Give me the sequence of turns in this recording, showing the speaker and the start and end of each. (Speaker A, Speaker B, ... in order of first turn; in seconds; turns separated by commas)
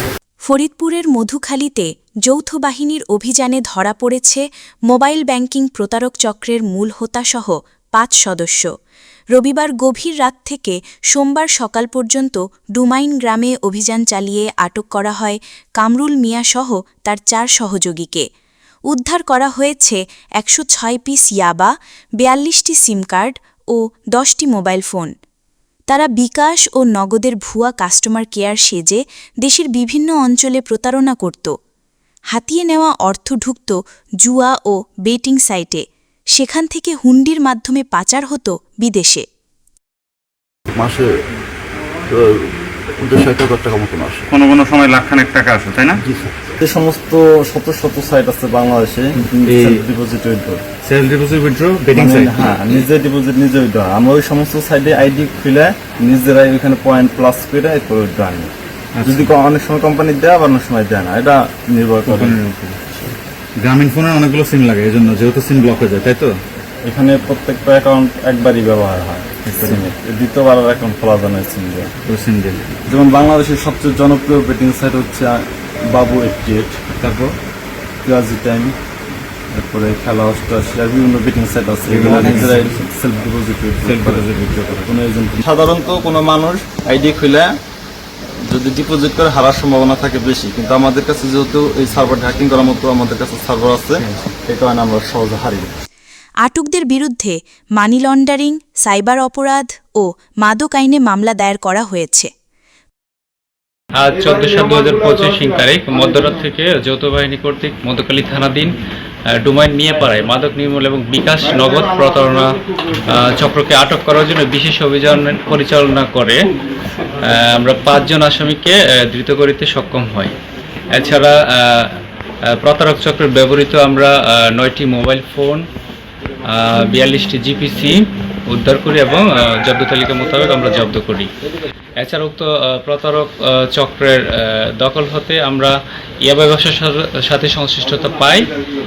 Speaker A: 0.5-8.7, Speaker A: 9.3-18.2, Speaker A: 18.9-25.1, Speaker A: 25.9-31.5, Speaker A: 32.3-35.8, Speaker A: 36.4-39.2, Speaker B: 40.8-41.1, Speaker B: 42.1-42.4, Speaker B: 43.0-44.2, Speaker C: 44.3-46.0, Speaker B: 46.1-46.3, Speaker D: 46.6-50.6, Speaker C: 50.8-52.5, Speaker D: 51.9-58.5, Speaker C: 59.0-59.3, Speaker D: 59.0-62.4, Speaker C: 62.1-62.8, Speaker C: 63.6-66.3, Speaker D: 66.9-71.9, Speaker C: 69.5-69.9, Speaker C: 72.1-72.6, Speaker D: 72.9-77.3, Speaker D: 78.0-78.8, Speaker D: 79.5-87.5, Speaker C: 81.9-82.8, Speaker C: 83.8-85.0, Speaker D: 88.5-95.7, Speaker A: 96.5-102.3, Speaker E: 104.0-108.7, Speaker E: 109.3-112.6, Speaker E: 113.1-116.5, Speaker E: 117.2-120.3, Speaker E: 120.9-122.0, Speaker E: 122.5-125.7, Speaker E: 126.5-131.3, Speaker E: 132.0-138.5